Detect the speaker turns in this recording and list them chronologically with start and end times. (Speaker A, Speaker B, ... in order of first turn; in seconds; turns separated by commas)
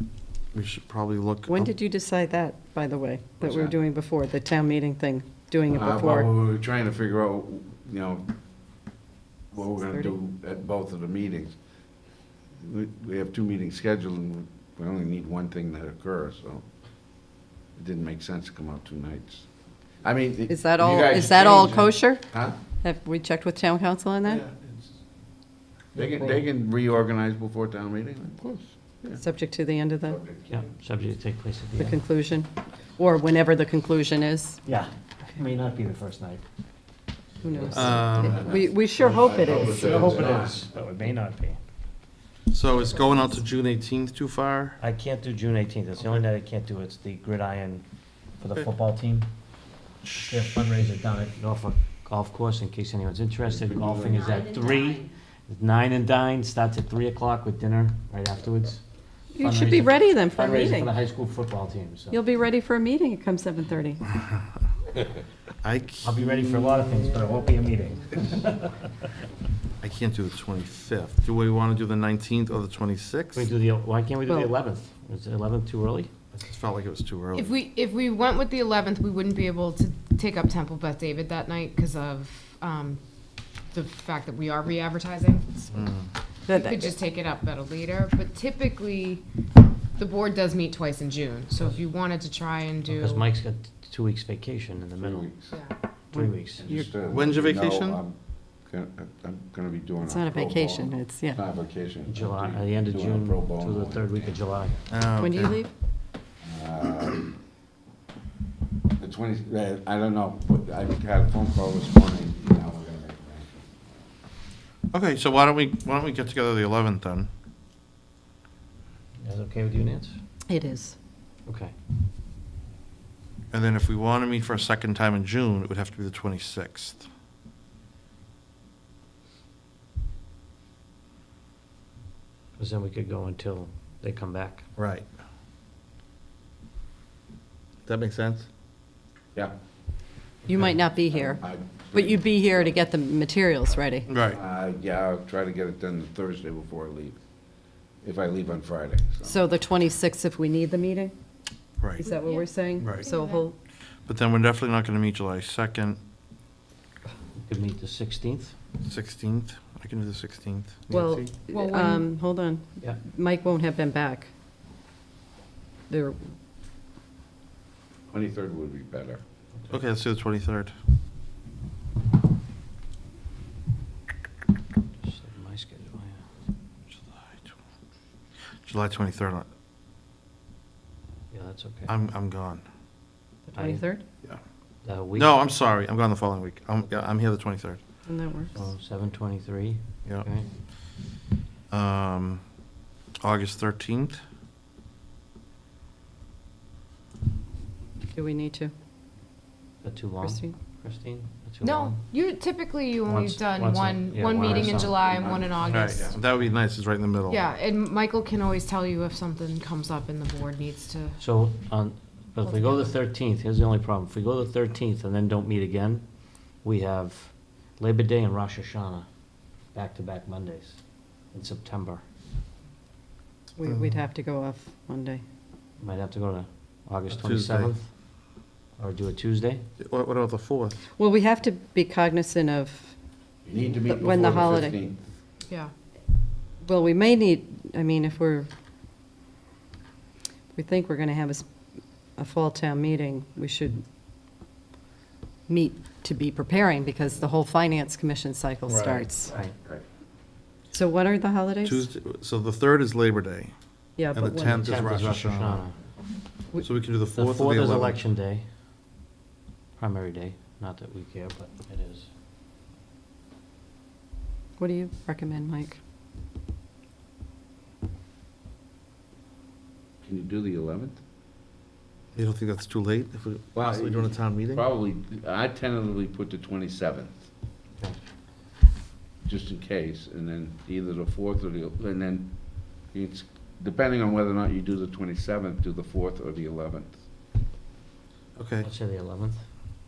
Speaker A: 0.5-1.7, Speaker B: 1.5-6.3, Speaker C: 3.4-3.8, Speaker C: 5.7-8.3, Speaker C: 9.5-11.6, Speaker B: 9.8-10.1, Speaker C: 12.6-16.6, Speaker C: 17.7-19.5, Speaker C: 20.0-22.6, Speaker B: 20.5-24.4, Speaker D: 25.9-26.4, Speaker C: 25.9-29.2, Speaker B: 29.2-30.2, Speaker C: 30.1-30.7, Speaker D: 30.5-32.0, Speaker B: 31.8-34.6, Speaker D: 34.6-36.4, Speaker B: 37.4-39.9, Speaker C: 37.6-40.6, Speaker A: 37.7-38.4, Speaker D: 39.0-41.6, Speaker A: 42.5-44.8, Speaker D: 44.8-47.8, Speaker D: 48.4-49.3, Speaker A: 50.0-50.5, Speaker D: 50.2-58.8, Speaker C: 53.5-54.2, Speaker B: 59.3-60.9, Speaker D: 59.4-62.2, Speaker B: 62.1-64.1, Speaker A: 65.6-66.2, Speaker D: 66.0-68.8, Speaker A: 69.8-73.5, Speaker D: 73.3-76.1, Speaker A: 76.3-77.5, Speaker E: 77.3-83.0, Speaker E: 83.7-85.7, Speaker A: 85.7-86.1, Speaker B: 86.5-87.0, Speaker E: 86.5-89.2, Speaker E: 90.0-93.2, Speaker D: 92.9-95.2, Speaker C: 95.0-95.6, Speaker B: 96.1-96.9, Speaker D: 96.1-96.7, Speaker C: 96.5-104.8, Speaker A: 97.1-98.0, Speaker B: 100.0-101.4, Speaker D: 102.1-104.8, Speaker A: 104.9-105.6, Speaker B: 105.2-105.7, Speaker C: 106.4-107.3, Speaker C: 109.0-113.6, Speaker A: 114.9-117.3, Speaker D: 119.2-120.2, Speaker B: 120.5-121.0, Speaker D: 121.5-121.7, Speaker A: 123.5-127.0, Speaker D: 132.6-134.7, Speaker A: 134.8-135.1, Speaker A: 137.8-138.4, Speaker D: 140.5-140.8, Speaker B: 140.5-144.2, Speaker C: 141.1-142.8, Speaker A: 144.1-144.4, Speaker C: 144.2-147.2, Speaker C: 148.0-149.4, Speaker B: 149.2-151.1, Speaker A: 151.8-152.1, Speaker B: 152.0-153.5, Speaker E: 152.0-153.4, Speaker A: 152.8-153.1, Speaker A: 154.1-156.0, Speaker D: 157.4-158.5, Speaker A: 158.8-161.3, Speaker B: 160.9-164.3, Speaker E: 161.5-162.0, Speaker B: 165.9-166.3, Speaker C: 168.1-169.2, Speaker A: 169.7-170.7, Speaker D: 175.0-176.2, Speaker A: 177.1-177.5, Speaker A: 178.6-179.4, Speaker D: 181.3-181.9, Speaker A: 181.9-182.6, Speaker B: 183.4-184.0, Speaker D: 183.5-183.8, Speaker D: 184.8-185.3, Speaker A: 185.1-187.8, Speaker B: 188.1-188.6, Speaker D: 188.5-190.5, Speaker A: 191.7-192.4, Speaker A: 193.2-194.2, Speaker B: 198.1-198.7, Speaker D: 199.8-202.0, Speaker B: 200.2-200.5, Speaker E: 201.6-206.2, Speaker D: 203.0-205.1, Speaker C: 204.4-206.2, Speaker A: 205.6-207.4, Speaker E: 207.3-211.2, Speaker D: 211.2-216.0, Speaker E: 212.4-212.9, Speaker D: 216.6-219.1, Speaker D: 219.7-222.0, Speaker B: 223.6-225.2, Speaker A: 223.6-224.0, Speaker D: 225.8-227.9, Speaker A: 227.1-227.7, Speaker D: 228.8-229.6, Speaker A: 229.8-230.8, Speaker B: 231.0-232.9, Speaker C: 233.4-235.0, Speaker B: 233.8-234.8, Speaker B: 236.6-238.5, Speaker B: 240.5-241.4, Speaker B: 242.2-243.8, Speaker B: 245.5-249.3, Speaker D: 248.7-249.5, Speaker B: 250.7-251.9, Speaker A: 251.6-253.5, Speaker B: 254.0-254.6, Speaker A: 254.1-255.6, Speaker D: 254.5-255.7, Speaker A: 256.6-258.0, Speaker D: 257.1-258.4, Speaker D: 259.8-262.1, Speaker B: 264.6-265.8, Speaker C: 270.0-271.0, Speaker A: 272.1-274.6, Speaker C: 273.5-277.2, Speaker C: 279.2-287.0, Speaker A: 288.4-288.7, Speaker D: 288.6-289.4